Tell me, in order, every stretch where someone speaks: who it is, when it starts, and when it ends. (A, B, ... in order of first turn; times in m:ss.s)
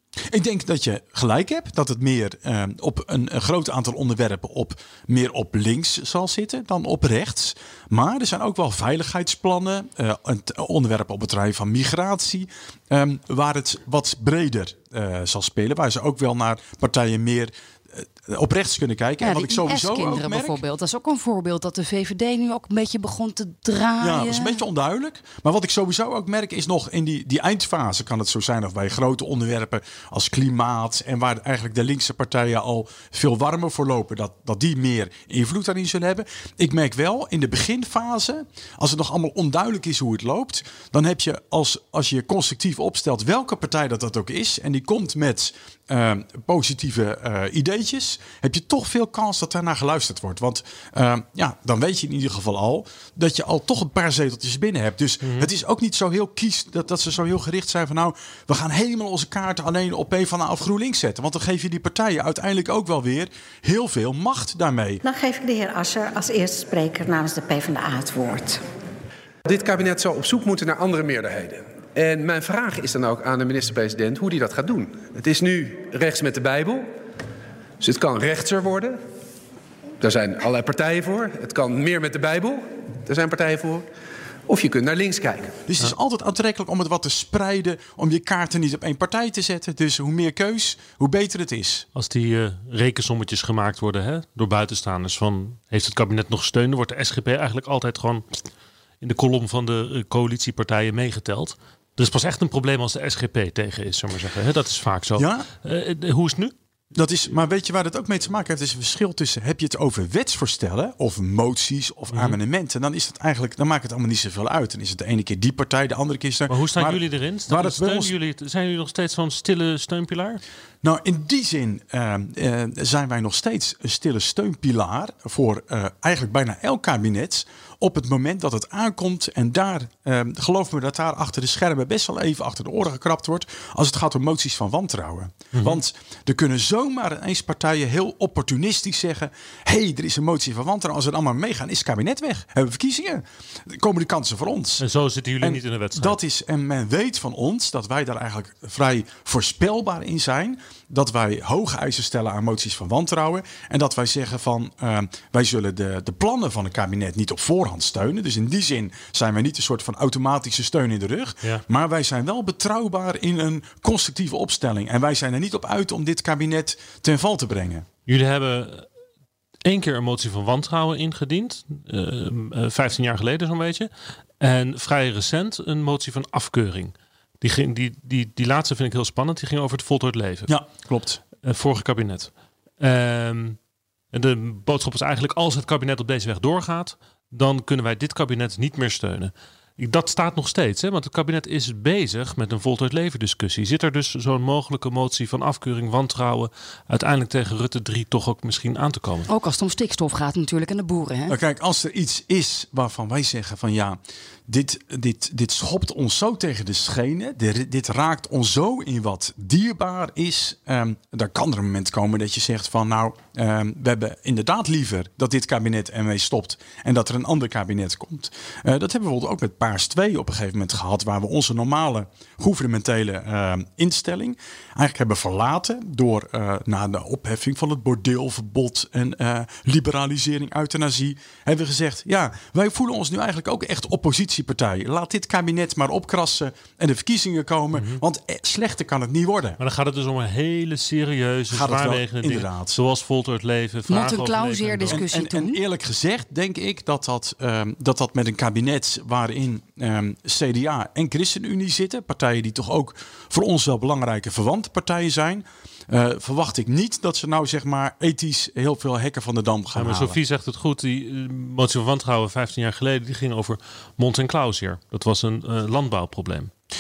0:00.3-0:20.6 A
0:19.2-0:24.6 B
0:24.0-1:05.0 A
0:55.2-0:55.5 C
1:05.0-1:08.6 D
1:09.5-1:16.9 E
1:17.8-1:19.0 E
1:20.0-1:23.9 E
1:24.5-1:25.5 E
1:25.7-1:31.9 A
1:32.0-1:38.2 C
1:39.0-1:46.5 C
1:45.2-1:45.5 A
1:47.0-1:58.1 A
1:52.1-1:52.4 C
1:56.5-2:00.4 C
2:00.8-2:24.8 A
2:15.5-2:15.8 C
2:24.8-2:26.2 C
2:25.4-2:47.9 A
2:48.1-2:48.9 C
2:49.6-3:00.5 C
3:00.5-3:01.2 A
3:01.4-3:03.6 C
3:04.1-3:19.3 C
3:19.3-3:21.4 B
3:21.3-3:59.6 A
3:57.8-3:58.0 C
3:59.6-4:05.1 C
4:01.5-4:02.8 A
4:03.9-4:05.6 B
4:04.9-4:20.2 A
4:19.7-4:26.5 C